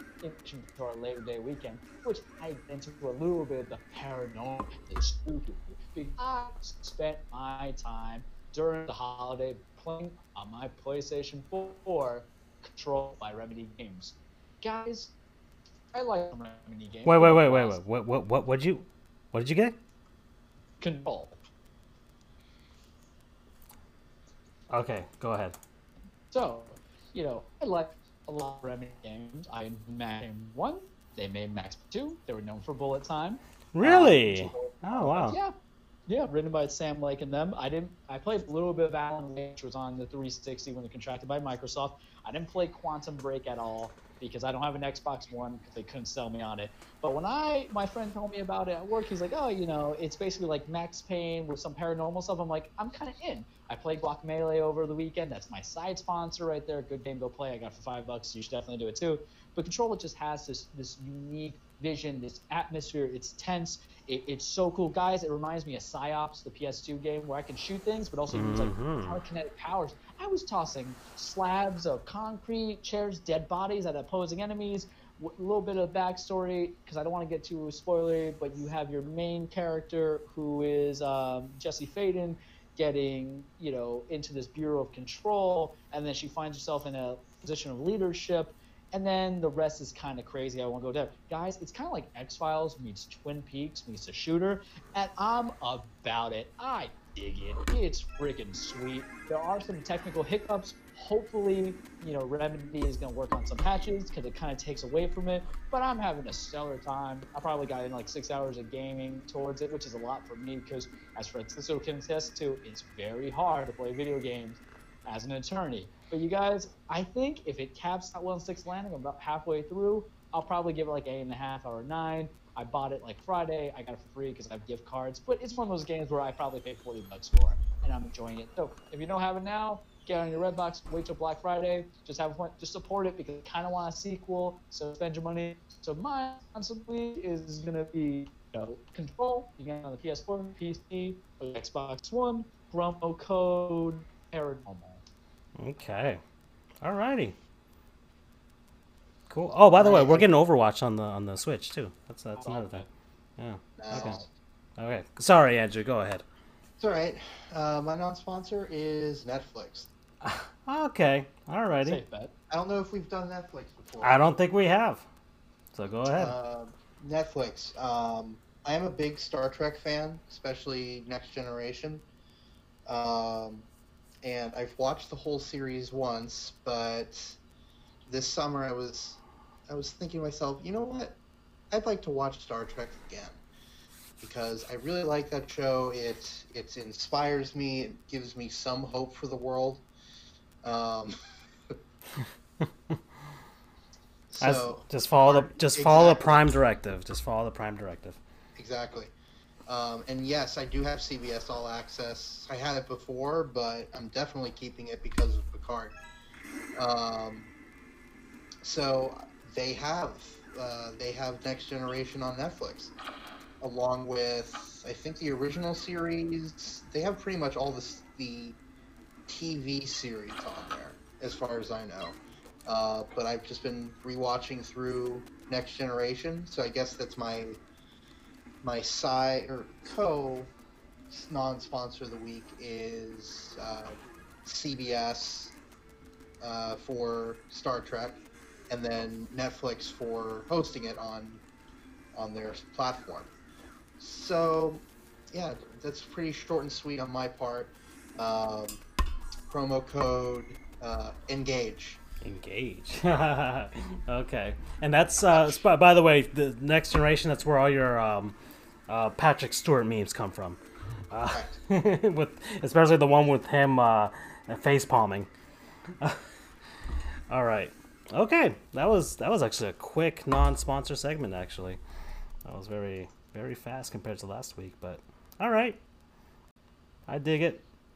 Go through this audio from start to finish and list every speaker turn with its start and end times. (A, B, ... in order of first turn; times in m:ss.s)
0:00.2-0:15.1 A
0:15.9-0:17.8 A
0:17.0-0:19.8 B
0:20.8-0:21.4 A
0:24.7-0:25.6 B
0:26.3-0:35.5 A
0:33.7-0:35.4 B
0:36.1-2:25.0 A
1:08.3-1:09.2 B
2:25.6-2:26.2 B
2:26.8-2:27.4 B
2:29.3-2:32.8 B
2:29.8-2:30.2 C
2:32.4-2:32.9 A
2:33.4-2:34.2 B
2:33.8-2:34.3 C
2:34.8-2:36.2 B
2:36.8-2:39.9 C
2:40.2-2:42.0 B
2:41.8-2:42.3 A
2:42.5-2:44.2 C
2:44.0-2:45.0 B
2:45.7-2:46.3 B
2:46.1-2:52.0 C
2:52.8-2:53.7 C
2:54.2-2:57.4 C
2:58.1-3:01.2 C
3:01.7-3:03.4 C
3:04.2-3:09.8 C
3:10.6-3:11.1 C
3:14.3-3:16.5 C
3:14.4-3:18.2 B
3:18.6-3:19.1 C
3:19.7-3:26.0 C
3:26.7-3:27.5 C
3:28.6-3:32.9 C
3:33.6-3:38.6 C
3:39.3-3:47.6 C
3:48.6-3:50.5 C
3:51.1-3:55.5 C
3:56.4-4:01.4 C
4:02.1-4:03.3 C
4:04.0-4:08.8 C
4:09.5-4:12.0 C
4:12.2-4:18.3 B
4:18.9-4:20.6 B
4:21.1-4:25.3 B
4:21.3-4:21.6 C
4:26.0-4:26.2 B
4:27.3-4:31.8 B
4:32.4-4:35.8 B
4:37.1-4:37.6 B